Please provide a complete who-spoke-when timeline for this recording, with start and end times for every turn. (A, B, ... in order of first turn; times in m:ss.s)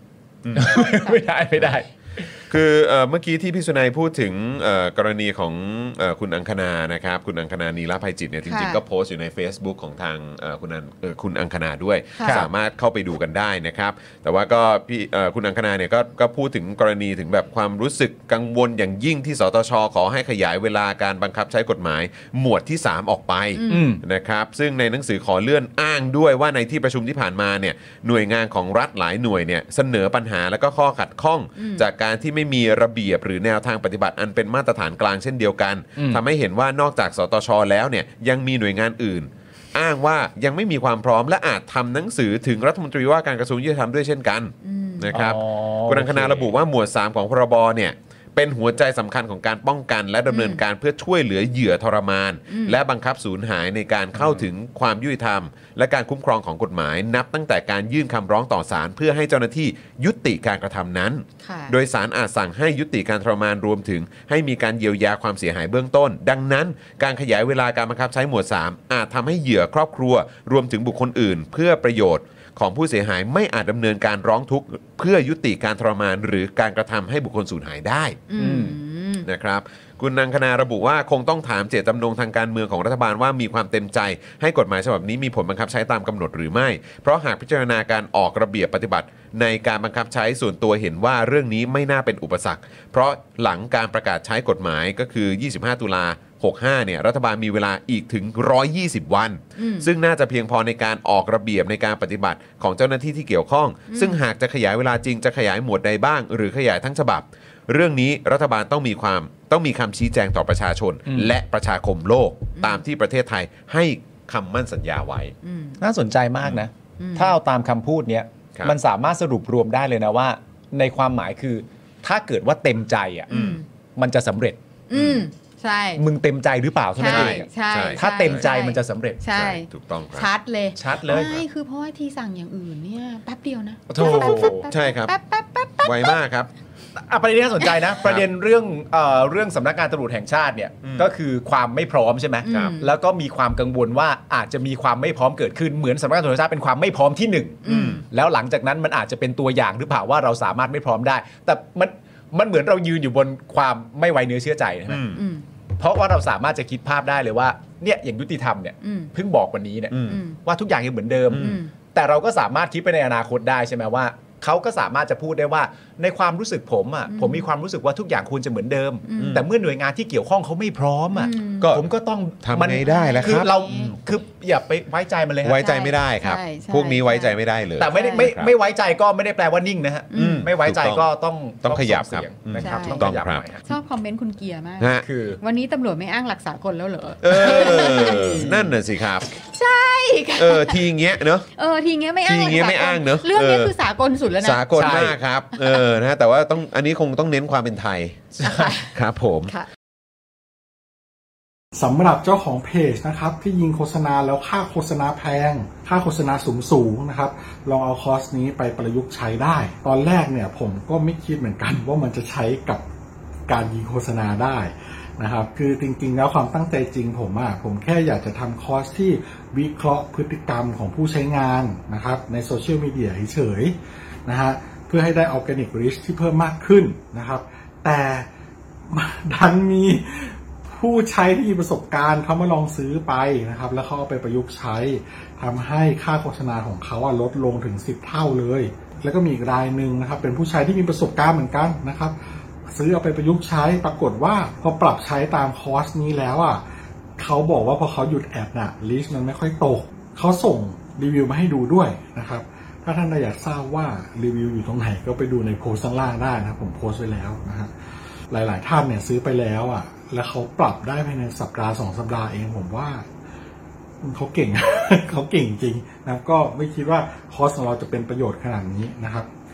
0:00.4-0:00.9 A
0:00.5-0:02.3 B
0:00.8-0:01.2 C
0:02.5-1:18.2 A
0:08.5-0:08.8 C
0:12.2-0:12.4 C
0:23.6-0:23.9 C
0:23.7-0:24.0 B
0:31.6-0:31.8 C
0:44.6-0:45.1 C
0:45.1-0:46.5 B
0:50.3-0:50.6 C
0:52.5-0:52.8 C
0:54.1-0:54.4 B
1:01.4-1:01.7 C
1:18.3-1:19.2 C
1:18.4-1:18.8 B
1:19.2-1:55.3 A
1:39.6-1:39.9 C
1:43.9-1:44.2 C
1:55.4-1:55.8 C
1:55.8-2:03.3 B
1:57.0-1:57.4 C
2:03.3-2:03.6 C
2:03.3-2:03.6 A
2:04.0-2:04.6 B
2:04.9-2:06.0 C
2:04.9-2:05.2 A
2:06.0-2:09.2 B
2:07.0-2:16.2 C
2:07.0-2:08.5 A
2:09.3-2:10.3 A
2:10.8-2:11.4 B
2:11.1-2:11.4 A
2:13.9-2:14.6 B
2:14.0-2:15.1 A
2:15.8-2:16.5 A
2:16.9-2:35.1 B
2:20.8-2:21.1 A
2:22.4-2:22.9 C
2:27.6-2:28.0 C
2:27.7-2:28.0 A
2:34.9-2:35.2 A
2:35.2-2:35.4 C
2:35.8-2:55.6 B
2:38.8-2:39.1 C
2:39.9-2:40.2 A
2:40.1-2:40.4 C
2:41.3-2:41.6 A
2:41.3-2:41.7 C
2:47.1-2:47.5 C
2:49.0-2:49.4 C
2:49.2-2:49.4 A
2:51.1-2:51.7 C
2:51.6-2:53.5 A
2:52.8-2:54.0 C
2:55.4-2:58.5 A
2:55.6-2:57.4 C
2:57.8-3:03.7 B
2:57.9-2:58.3 C
3:00.1-3:00.4 C
3:00.1-3:01.0 A
3:01.6-3:03.4 A
3:02.6-3:08.4 C
3:04.8-3:05.0 A
3:05.0-3:05.4 B
3:07.2-3:09.3 A
3:07.3-3:08.8 B
3:09.5-3:10.8 C
3:10.4-3:11.4 A
3:11.6-3:14.9 C
3:12.2-3:13.7 A
3:14.4-3:18.2 A
3:14.7-3:15.2 B
3:15.5-3:15.8 C
3:18.3-3:18.8 B
3:18.4-3:18.9 C
3:18.9-3:19.5 A
3:21.7-3:32.8 D
3:33.5-3:43.7 D
3:44.2-3:48.2 D
3:48.9-4:02.1 D
4:02.7-4:06.6 D
4:07.2-4:17.7 D
4:18.3-4:23.0 D
4:24.0-4:29.3 D